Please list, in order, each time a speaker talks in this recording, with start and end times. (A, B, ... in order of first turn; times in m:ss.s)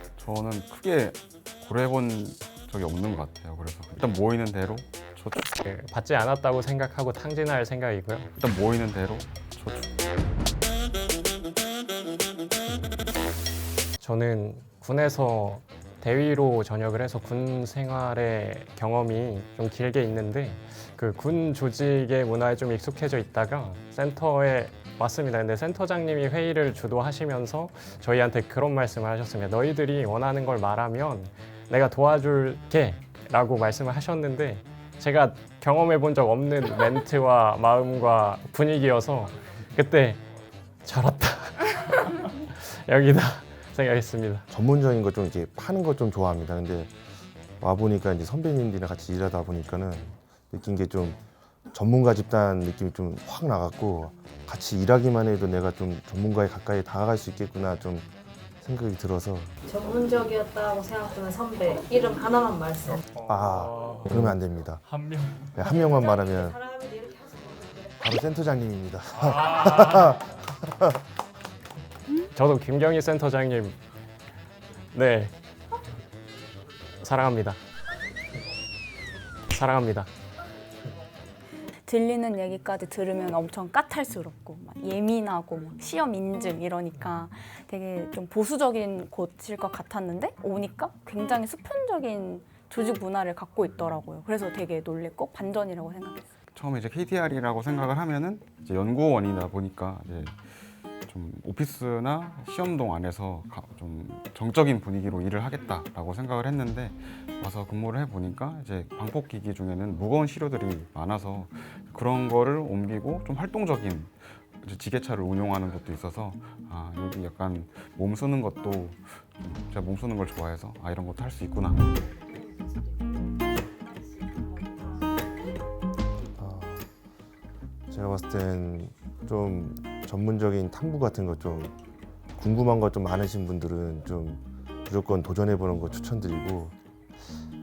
0:00.2-0:05.5 A
0:05.4-0:08.3 B
0:08.4-0:09.9 A
0:14.0-0:40.2 B
0:40.8-0:44.4 B
0:44.5-0:46.9 C
0:47.6-0:51.2 C
0:51.7-0:58.1 C
0:58.6-0:59.5 C
0:59.6-1:03.0 D
1:02.9-1:05.7 B
1:03.3-1:04.8 C
1:05.5-1:06.6 C
1:05.8-1:07.9 D
1:08.0-1:10.9 C
1:09.1-1:10.2 B
1:12.3-1:13.8 B
1:14.9-1:15.3 B
1:17.0-1:17.6 B
1:19.5-1:20.1 B
1:21.9-1:36.3 E
1:36.5-1:40.4 A
1:41.0-2:01.9 A
2:02.0-2:03.4 D
2:04.2-2:05.4 D
2:06.4-2:06.8 C
2:07.9-2:11.7 C
2:12.4-2:16.7 C